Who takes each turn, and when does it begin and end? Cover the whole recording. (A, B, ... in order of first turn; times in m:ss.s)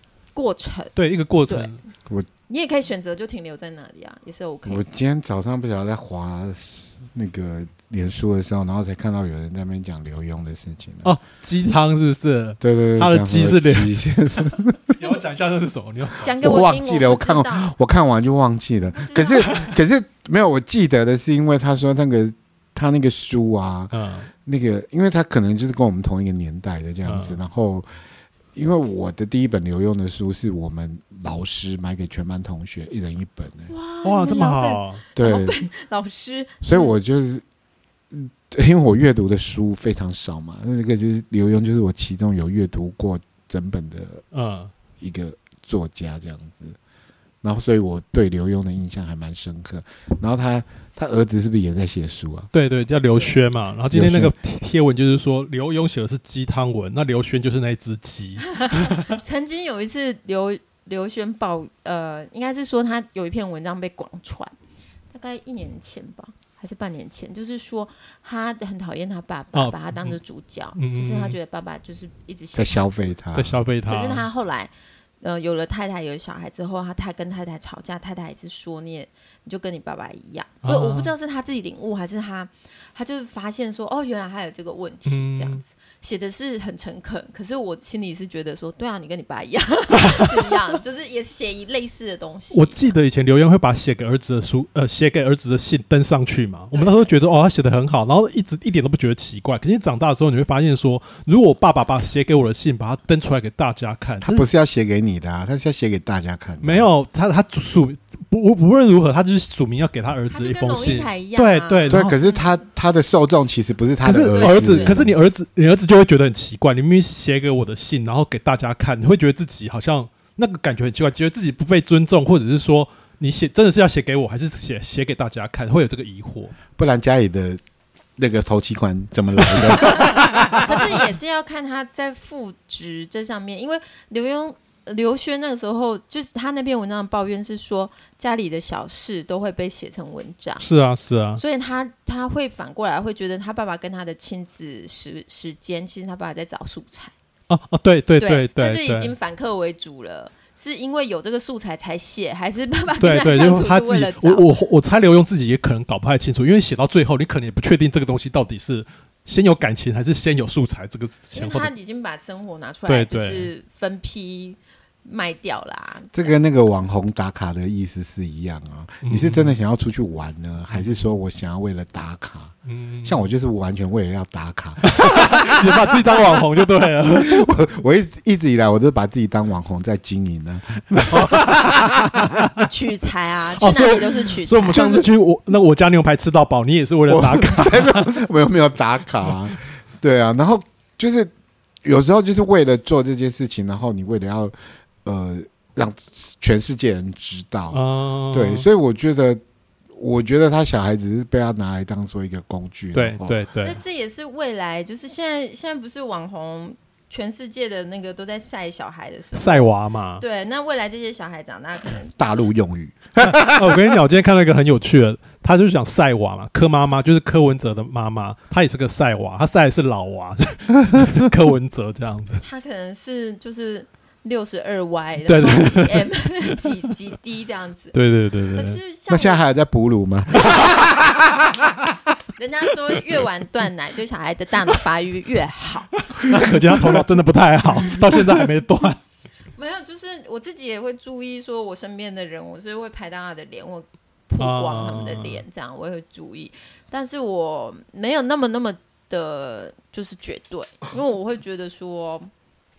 0:00.3-0:01.0 A
0:01.0-0:01.8 B
0:01.5-0:01.8 A
0:02.5-0:04.8 A
0:04.7-0:11.1 C
0:11.0-0:16.4 B
0:12.6-0:15.0 C
0:16.2-0:17.7 A
0:16.4-0:23.9 C
0:19.0-0:19.8 A
0:23.9-0:24.3 B
0:24.4-0:27.9 C
0:27.1-0:27.4 B
0:28.5-0:33.7 C
0:33.7-0:37.0 A
0:34.0-0:35.0 B
0:35.2-0:35.6 C
0:36.6-0:37.4 C
0:38.1-0:44.2 C
0:44.3-0:44.7 B
0:45.0-0:46.8 C
0:47.4-0:52.5 C
0:52.5-0:59.1 B
0:53.9-0:54.3 C
0:58.5-1:04.5 A
1:05.1-1:12.9 A
1:09.5-1:10.2 B
1:10.8-1:11.4 B
1:12.5-1:13.6 C
1:13.3-1:14.3 B
1:13.9-1:32.9 A
1:20.6-1:21.1 B
1:25.1-1:25.6 B
1:30.0-1:30.6 B
1:32.5-1:44.5 B
1:36.7-1:37.1 A
1:44.2-1:46.9 C
1:46.6-1:52.2 B
1:50.3-1:52.6 A
1:51.9-1:55.2 C
1:54.0-2:06.6 B
1:54.3-1:55.0 A
2:06.8-2:07.6 C
2:08.2-2:10.8 C
2:10.0-2:20.7 A
2:20.6-2:21.4 B
2:21.4-2:27.2 A
2:27.5-2:29.1 B
2:28.2-2:34.4 A
2:33.0-2:41.7 B
2:41.3-2:46.3 A
2:42.9-2:43.5 B
2:46.1-3:02.6 C
2:49.0-2:49.6 B
2:50.7-2:51.0 B
2:52.6-2:53.2 B
2:54.8-2:57.5 B
3:01.1-3:02.6 B
3:02.6-3:05.1 A
3:03.6-3:08.2 B
3:07.1-3:11.3 C
3:11.8-3:19.4 C
3:17.7-3:18.7 B
3:19.9-3:23.4 C
3:22.9-3:23.8 B
3:23.6-3:32.1 A
3:29.3-3:30.2 B
3:32.2-3:33.9 C
3:33.2-3:42.4 B
3:42.4-3:48.0 A
3:45.3-3:46.6 B
3:47.9-3:48.8 B
3:48.5-3:49.4 A
3:49.1-3:51.4 C
3:52.4-3:56.6 A
3:56.1-3:59.0 B
3:59.6-4:12.3 A
4:04.4-4:05.4 B